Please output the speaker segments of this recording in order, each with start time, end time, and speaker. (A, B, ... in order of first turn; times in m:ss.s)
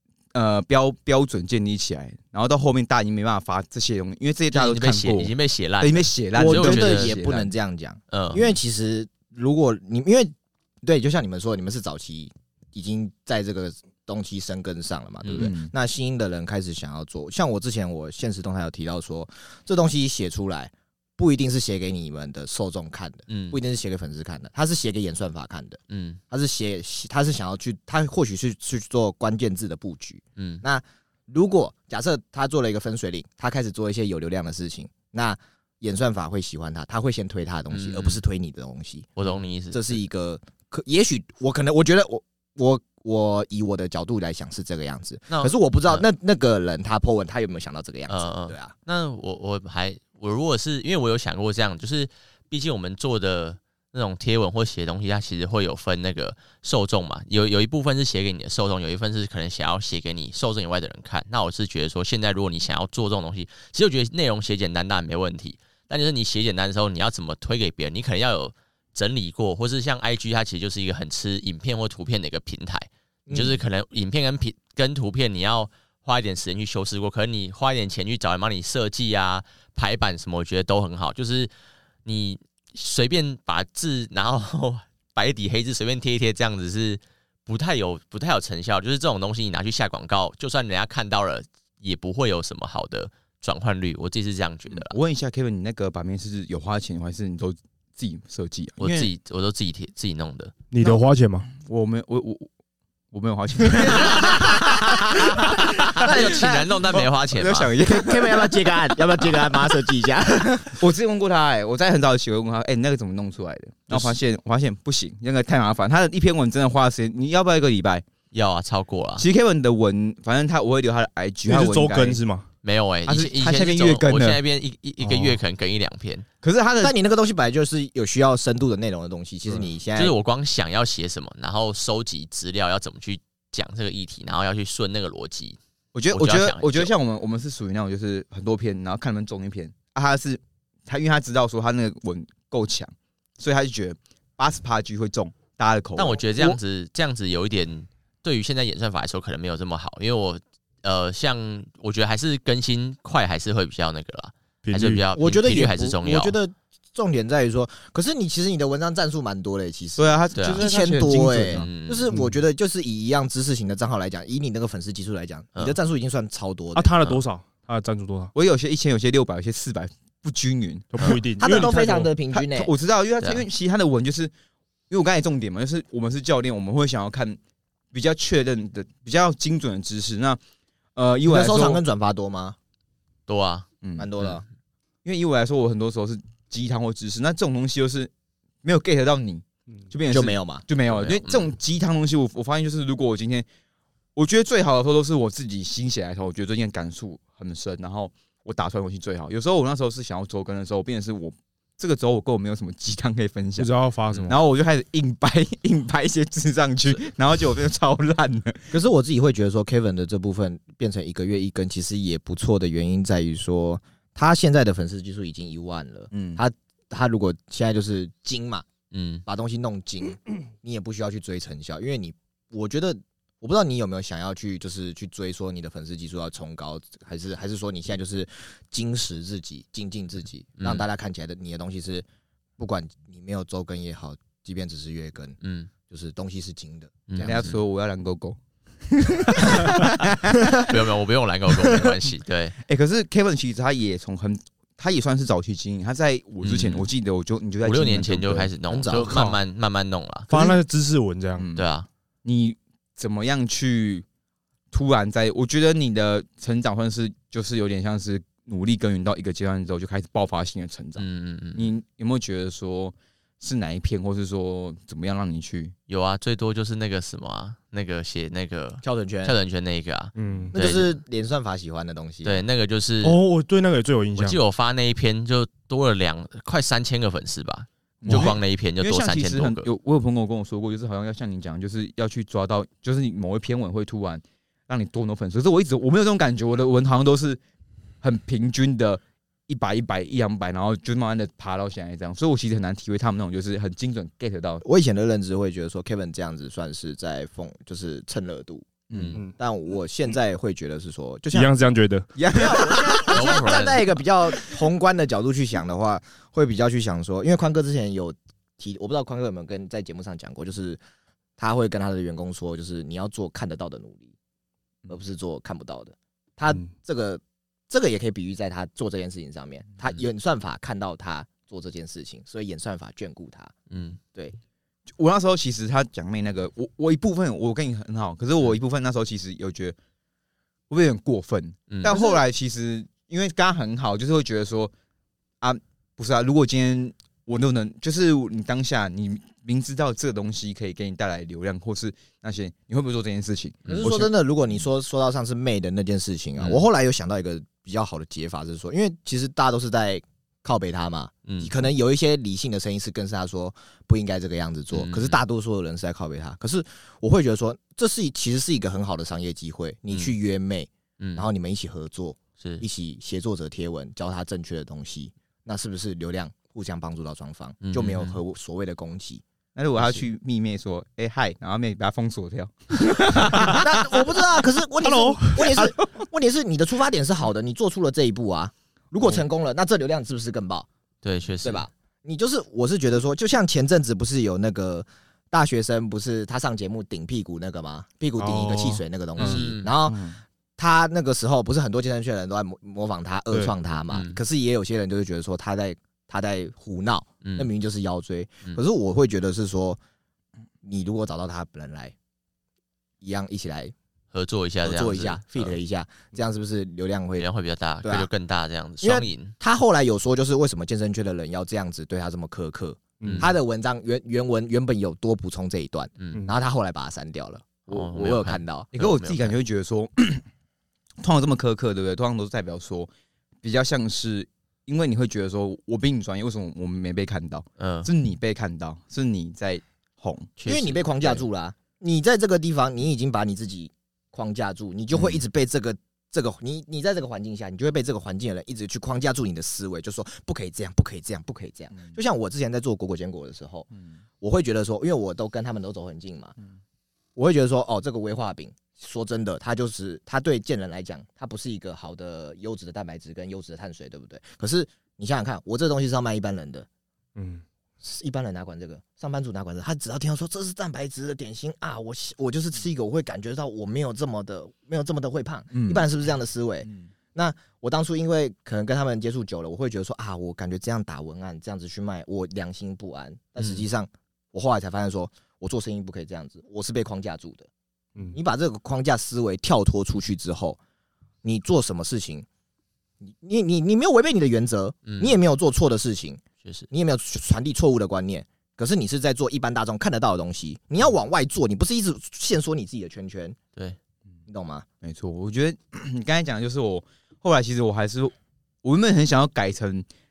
0:00.3-0:07.5 A
0:04.5-0:07.2 B
0:06.4-0:39.1 C
0:08.1-0:08.5 B
0:15.4-0:15.7 A
0:23.3-0:23.6 B
0:25.9-0:26.2 B
0:30.4-0:30.6 B
0:37.7-0:38.2 B
0:39.2-0:40.0 B
0:39.7-0:48.7 C
0:45.3-0:46.0 B
0:48.1-1:21.5 B
1:13.3-1:13.6 C
1:22.0-1:35.0 B
1:34.7-1:39.1 A
1:38.8-1:40.5 B
1:40.7-1:41.5 D
1:41.6-1:42.5 A
1:43.1-1:48.7 A
1:43.7-1:46.7 C
1:46.0-1:47.7 B
1:47.8-1:50.8 C
1:50.8-1:58.0 A
1:58.3-1:59.2 B
1:59.2-2:02.2 A
2:01.5-2:02.5 D
2:02.6-2:06.2 B
2:03.1-2:04.4 A
2:05.0-2:05.4 D
2:06.4-2:07.0 A
2:06.8-2:10.1 C
2:10.0-2:15.6 B
2:15.9-2:26.6 A
2:16.1-2:16.9 B
2:26.0-2:36.4 B
2:34.6-2:35.0 D
2:35.1-2:46.9 C
2:40.0-2:41.7 A
2:40.4-2:40.6 B
2:41.5-2:42.1 B
2:42.1-2:42.4 D
2:46.8-2:48.3 D
2:48.4-2:51.7 A
2:50.9-2:52.1 D
2:51.4-2:52.7 C
2:52.3-2:54.3 A
2:54.9-2:57.4 A
2:57.9-3:00.4 A
3:01.0-3:01.8 A
3:01.2-3:02.6 C
3:03.3-3:03.7 B
3:03.8-3:04.1 A
3:04.0-3:04.4 C
3:05.0-3:08.1 A
3:08.6-3:13.5 A
3:10.1-3:10.6 C
3:10.9-3:11.5 B
3:14.2-3:23.7 A
3:23.6-3:24.4 D
3:24.2-3:28.7 A
3:28.7-3:38.6 C
3:36.1-3:36.4 A
3:38.9-3:39.2 B
3:39.2-3:52.0 C
3:50.6-3:50.8 B
3:52.6-3:57.3 C
3:55.4-3:55.7 B
3:57.1-3:57.6 B
3:57.2-4:00.6 A
3:59.6-3:59.8 C
4:00.5-4:02.5 B
4:02.6-4:08.5 A
4:06.4-4:06.9 B
4:07.6-4:10.3 B
4:08.7-4:09.2 C
4:09.0-4:09.4 D
4:10.3-4:11.5 D
4:11.4-4:11.7 A
4:11.5-4:11.9 B
4:12.2-4:14.0 A
4:14.7-4:21.0 A
4:21.0-4:21.7 B
4:21.5-4:25.7 A
4:25.9-4:31.0 B
4:28.8-4:29.4 C
4:30.2-4:30.5 D
4:30.5-4:32.4 C
4:32.2-4:33.2 B
4:33.0-4:34.4 D
4:34.2-4:39.7 B
4:38.0-4:47.4 A
4:48.0-4:54.6 A
4:54.6-4:58.7 C
4:58.9-4:59.2 A
4:58.9-4:59.2 B
4:59.4-5:01.5 C
5:01.3-5:02.1 D
5:02.2-5:03.2 A
5:02.4-5:10.8 C
5:03.1-5:04.0 B
5:11.4-5:14.1 C
5:14.9-5:23.5 C
5:23.7-5:24.0 B
5:25.0-5:29.8 A
5:30.7-5:34.7 A
5:31.7-5:32.0 B
5:35.4-5:44.1 A
5:43.6-5:43.9 B
5:43.7-6:09.2 C
5:46.4-5:46.6 B
5:51.2-5:51.5 B
5:54.7-5:55.2 B
6:07.6-6:08.2 B
6:09.5-6:14.0 A
6:13.4-6:20.7 C
6:14.8-6:15.7 D
6:21.0-6:21.7 B
6:21.4-6:39.8 C
6:28.2-6:30.2 D
6:29.2-6:29.7 B
6:33.9-6:34.2 B
6:37.2-6:37.5 B
6:40.6-6:41.9 C
6:43.0-6:43.7 C
6:44.1-6:45.6 B
6:44.6-6:47.3 C
6:47.2-6:49.3 B
6:47.8-6:48.1 C
6:48.8-6:58.7 C
6:53.0-6:53.3 D
6:53.0-6:53.3 B
6:57.7-6:59.3 B
6:58.7-7:00.2 A
7:01.0-7:02.9 A
7:03.4-7:10.3 A
7:07.6-7:07.9 B
7:10.4-7:11.2 B
7:10.4-7:23.7 C
7:14.9-7:15.2 B
7:24.2-7:26.4 C
7:27.2-7:36.7 C
7:37.2-7:37.4 D
7:37.8-7:57.5 C
7:45.5-7:45.8 A
7:53.4-7:53.6 B
7:58.1-8:00.6 C
8:01.2-8:02.2 C
8:03.1-8:13.4 C
8:04.8-8:05.2 B
8:06.4-8:06.7 B
8:14.3-8:14.6 C
8:14.8-8:19.8 A